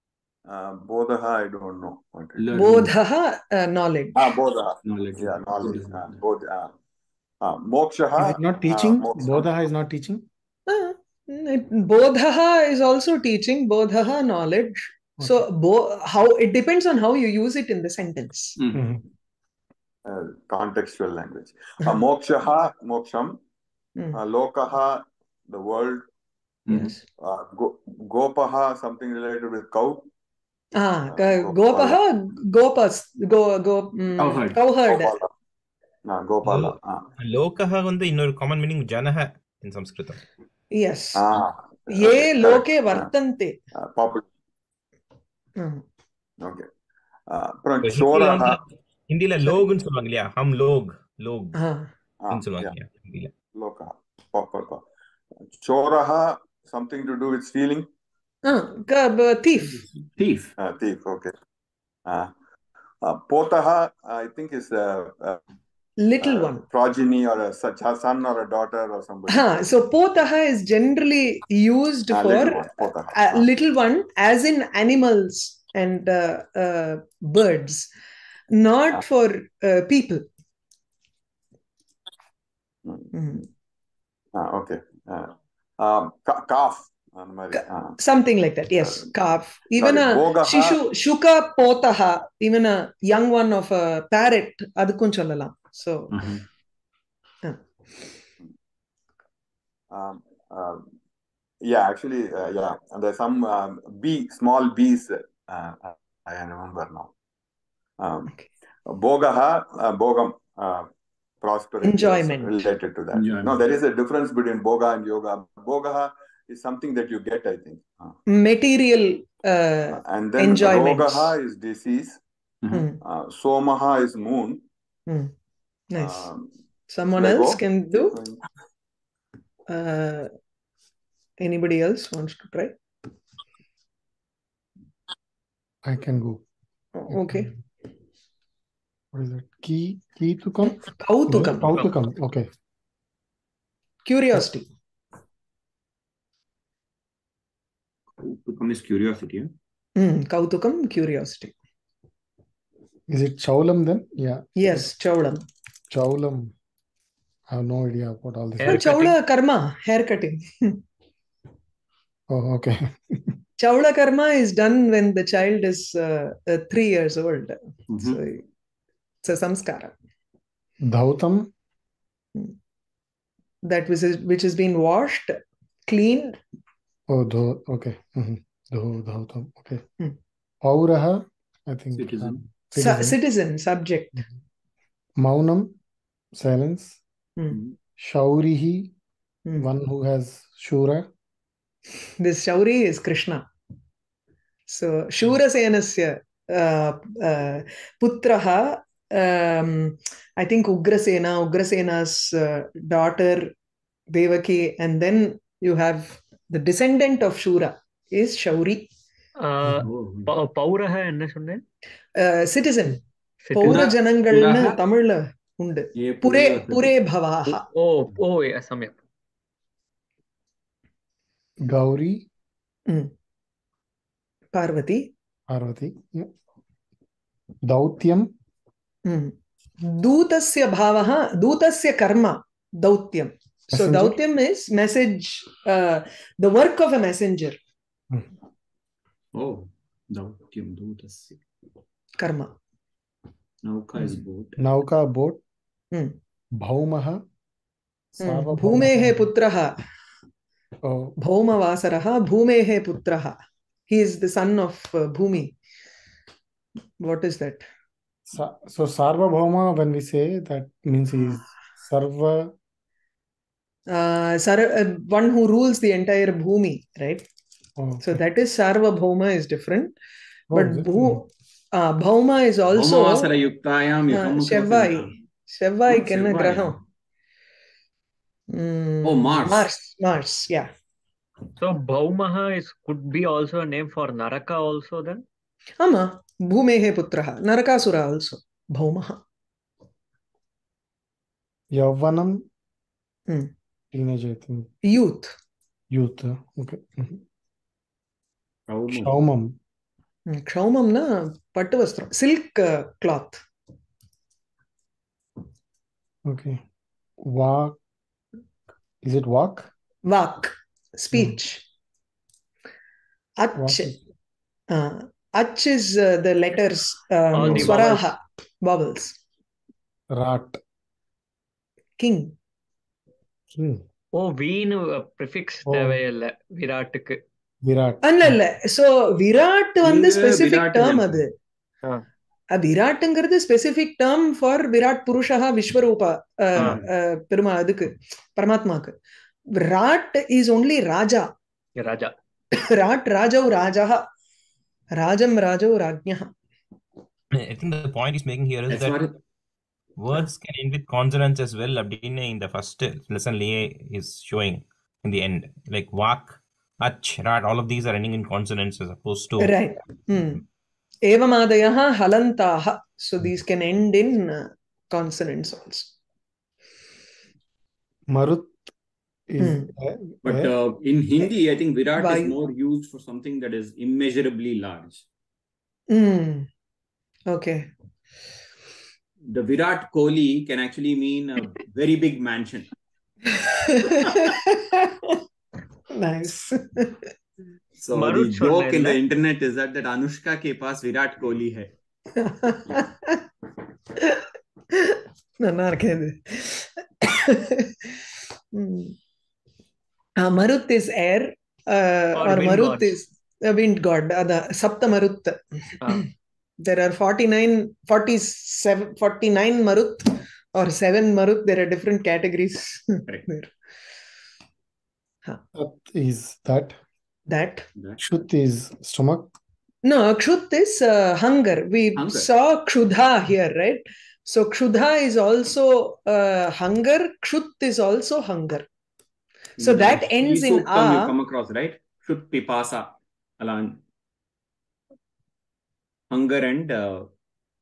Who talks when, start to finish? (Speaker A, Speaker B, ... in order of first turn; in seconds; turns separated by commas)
Speaker A: 0.5-2.4, Speaker B: 2.4-2.9, Speaker C: 2.5-4.3, Speaker A: 4.2-6.7, Speaker B: 4.8-6.2, Speaker A: 7.4-9.5, Speaker D: 8.2-10.2, Speaker C: 10.7-18.6, Speaker D: 15.2-15.4, Speaker B: 18.6-18.8, Speaker D: 18.7-19.0, Speaker A: 20.0-23.4, Speaker A: 24.1-26.1, Speaker B: 26.7-26.9, Speaker C: 26.7-27.0, Speaker A: 27.1-30.1, Speaker C: 30.8-35.1, Speaker A: 31.1-32.0, Speaker B: 34.2-34.6, Speaker A: 34.9-35.3, Speaker A: 36.0-37.1, Speaker E: 36.4-40.2, Speaker C: 40.7-41.2, Speaker A: 41.1-43.1, Speaker C: 41.9-43.5, Speaker A: 43.8-44.2, Speaker C: 45.6-45.8, Speaker A: 46.4-46.7, Speaker A: 47.3-48.6, Speaker E: 47.8-51.6, Speaker C: 51.5-51.9, Speaker A: 52.2-52.7, Speaker E: 52.3-53.3, Speaker A: 53.5-54.8, Speaker A: 55.5-57.9, Speaker C: 58.4-59.8, Speaker B: 60.1-60.5, Speaker A: 60.6-61.3, Speaker A: 62.0-62.3, Speaker A: 63.0-65.4, Speaker C: 66.0-66.6, Speaker A: 66.2-69.5, Speaker C: 69.3-77.9, Speaker A: 72.1-73.5, Speaker C: 78.5-80.2, Speaker C: 83.1-83.5, Speaker A: 84.3-88.0, Speaker C: 87.5-96.1, Speaker A: 89.8-90.8, Speaker B: 96.1-96.4, Speaker A: 99.9-100.9, Speaker A: 101.6-107.1, Speaker A: 108.0-108.3, Speaker A: 108.8-110.9, Speaker A: 111.4-118.2, Speaker C: 111.8-112.6, Speaker B: 113.1-113.7, Speaker C: 118.3-121.3, Speaker A: 120.0-122.2, Speaker C: 122.7-123.0, Speaker A: 123.0-124.6, Speaker C: 125.1-125.3, Speaker C: 125.9-126.3, Speaker A: 126.0-126.5, Speaker C: 126.9-128.2, Speaker A: 127.1-128.4, Speaker C: 129.7-130.3, Speaker C: 131.4-132.7, Speaker D: 135.8-136.4, Speaker C: 136.9-137.5, Speaker D: 137.1-137.4, Speaker D: 139.1-142.5, Speaker C: 140.6-141.8, Speaker C: 144.0-144.7, Speaker B: 148.2-149.5, Speaker C: 150.0-151.5, Speaker D: 153.1-154.8, Speaker C: 154.6-155.4, Speaker D: 155.9-156.5, Speaker D: 157.5-158.8, Speaker F: 158.6-159.1, Speaker C: 158.7-160.8, Speaker D: 162.3-163.3, Speaker C: 163.6-168.4, Speaker B: 167.9-168.2, Speaker C: 169.2-169.9, Speaker D: 170.8-171.5, Speaker C: 173.6-176.4, Speaker D: 177.1-179.8, Speaker D: 180.6-183.2, Speaker B: 181.9-182.4, Speaker C: 182.8-184.2, Speaker D: 185.2-185.7, Speaker D: 186.3-187.0, Speaker B: 187.5-187.8, Speaker D: 188.0-188.9, Speaker D: 189.6-191.1, Speaker C: 192.2-193.4, Speaker C: 194.7-203.5, Speaker C: 204.1-208.9, Speaker F: 209.4-211.6, Speaker B: 209.7-210.3, Speaker C: 212.2-213.0, Speaker F: 213.4-213.9, Speaker C: 213.5-217.7, Speaker B: 213.6-214.8, Speaker B: 215.9-216.9, Speaker F: 217.7-218.9, Speaker D: 221.6-222.2, Speaker C: 224.5-225.1, Speaker D: 225.5-226.3, Speaker D: 227.6-228.3, Speaker C: 229.1-237.6, Speaker D: 233.7-234.2, Speaker B: 239.3-241.4, Speaker C: 242.2-242.5, Speaker B: 243.6-244.6, Speaker D: 244.6-245.4, Speaker D: 246.5-247.2, Speaker D: 248.2-249.3, Speaker C: 248.2-249.8, Speaker D: 250.8-251.1, Speaker C: 251.2-253.4, Speaker C: 253.9-255.5, Speaker C: 257.0-257.7, Speaker D: 258.3-262.5, Speaker C: 263.9-267.2, Speaker D: 267.8-268.2, Speaker C: 268.0-269.9, Speaker D: 270.5-271.2, Speaker C: 270.5-273.3, Speaker B: 272.7-275.1, Speaker C: 274.1-276.8, Speaker B: 275.9-276.8, Speaker C: 278.5-280.7, Speaker B: 279.0-279.7, Speaker F: 281.6-285.2, Speaker C: 285.8-289.2, Speaker D: 291.7-292.4, Speaker D: 293.9-294.7, Speaker C: 294.8-295.3, Speaker D: 295.9-297.2, Speaker B: 298.7-299.1, Speaker D: 298.9-299.6, Speaker C: 300.3-303.4, Speaker D: 306.2-306.6, Speaker D: 307.2-307.8, Speaker D: 309.0-309.7, Speaker C: 310.1-311.6, Speaker C: 313.4-313.9, Speaker D: 313.6-314.0, Speaker C: 314.7-319.1, Speaker F: 317.3-318.1, Speaker D: 320.1-320.6, Speaker C: 322.0-322.3, Speaker D: 323.5-323.8, Speaker F: 324.1-327.2, Speaker D: 325.6-326.0, Speaker D: 327.6-328.4, Speaker C: 328.0-331.3, Speaker B: 329.8-331.2, Speaker C: 332.5-338.9, Speaker B: 336.5-336.9, Speaker C: 339.5-341.3, Speaker F: 341.8-342.1, Speaker C: 342.6-344.1, Speaker C: 345.0-346.3, Speaker E: 347.3-349.0, Speaker B: 348.7-349.1, Speaker E: 350.0-359.6, Speaker C: 359.4-360.4, Speaker C: 361.1-365.9, Speaker D: 368.1-368.7, Speaker D: 369.3-370.5, Speaker C: 369.4-369.7, Speaker B: 370.2-375.0, Speaker C: 372.0-372.3, Speaker C: 375.9-376.5, Speaker C: 377.3-377.7, Speaker B: 379.3-382.7, Speaker C: 383.3-385.2, Speaker C: 385.9-387.1, Speaker B: 387.8-391.7, Speaker F: 387.9-389.0, Speaker C: 392.2-393.2, Speaker C: 394.0-397.9, Speaker C: 398.5-398.9, Speaker C: 400.2-406.0, Speaker F: 402.2-403.0, Speaker F: 405.8-406.1, Speaker C: 406.6-413.5, Speaker D: 415.5-416.8, Speaker C: 417.3-417.6, Speaker D: 418.0-419.3, Speaker C: 419.8-428.7, Speaker B: 421.9-422.3, Speaker B: 429.6-433.8, Speaker C: 429.6-431.1, Speaker B: 436.1-437.1